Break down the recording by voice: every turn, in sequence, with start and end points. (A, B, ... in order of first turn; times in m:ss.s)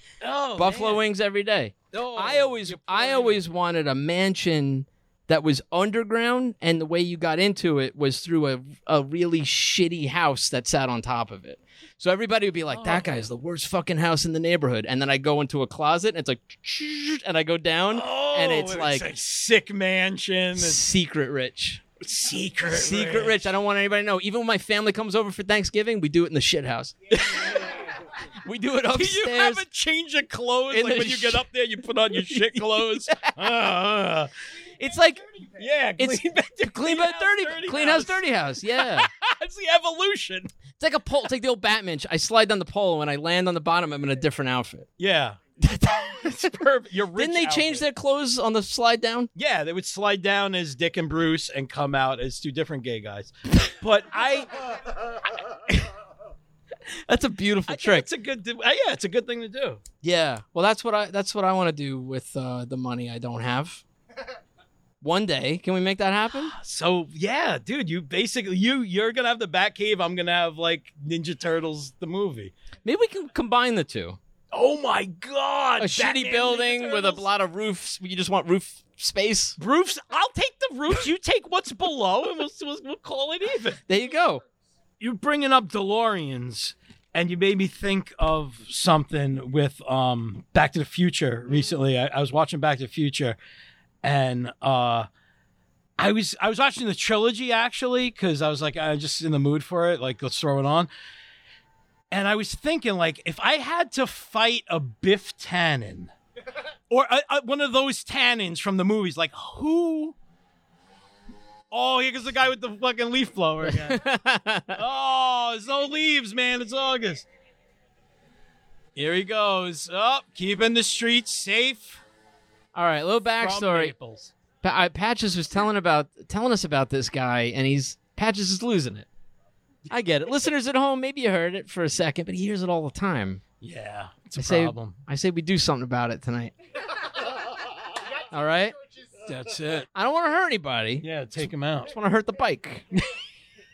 0:00.2-0:01.0 A
0:00.6-0:19.1 B
0:01.9-0:03.4 A
0:12.7-0:13.1 A
0:17.9-0:20.8 A
0:20.6-0:21.8 B
0:22.0-0:23.5 A
0:22.7-0:27.0 B
0:27.1-0:27.9 A
0:28.4-0:29.6 B
0:28.9-0:34.3 A
0:30.7-0:31.5 B
0:32.1-0:33.4 B
0:34.8-0:35.2 B
0:35.6-0:40.5 A
0:36.0-0:39.1 B
0:40.8-0:44.9 B
0:45.0-0:47.9 A
0:45.7-0:46.2 B
0:47.2-0:49.3 B
0:49.4-0:54.7 A
0:57.1-0:58.1 B
0:57.7-0:59.8 A
1:00.0-1:03.8 B
1:05.0-1:06.6 B
1:06.4-1:12.5 A
1:12.8-1:14.2 B
1:14.5-1:17.3 A
1:15.8-1:19.6 B
1:19.6-1:23.8 A
1:23.9-1:24.4 B
1:25.0-1:33.4 A
1:34.0-1:35.1 A
1:36.0-1:40.9 A
1:42.1-1:46.1 A
1:46.9-1:50.2 A
1:51.7-1:54.0 A
1:53.6-1:54.8 B
1:54.7-1:57.3 A
1:59.0-2:02.0 A
2:02.7-2:04.0 B
2:03.4-2:04.3 A
2:04.6-2:09.1 B
2:09.9-2:13.4 B
2:13.6-2:15.0 A
2:14.4-2:16.5 B
2:18.3-2:18.8 B
2:19.2-2:19.9 A
2:20.0-2:21.1 B
2:21.0-2:22.0 A
2:21.9-2:22.9 B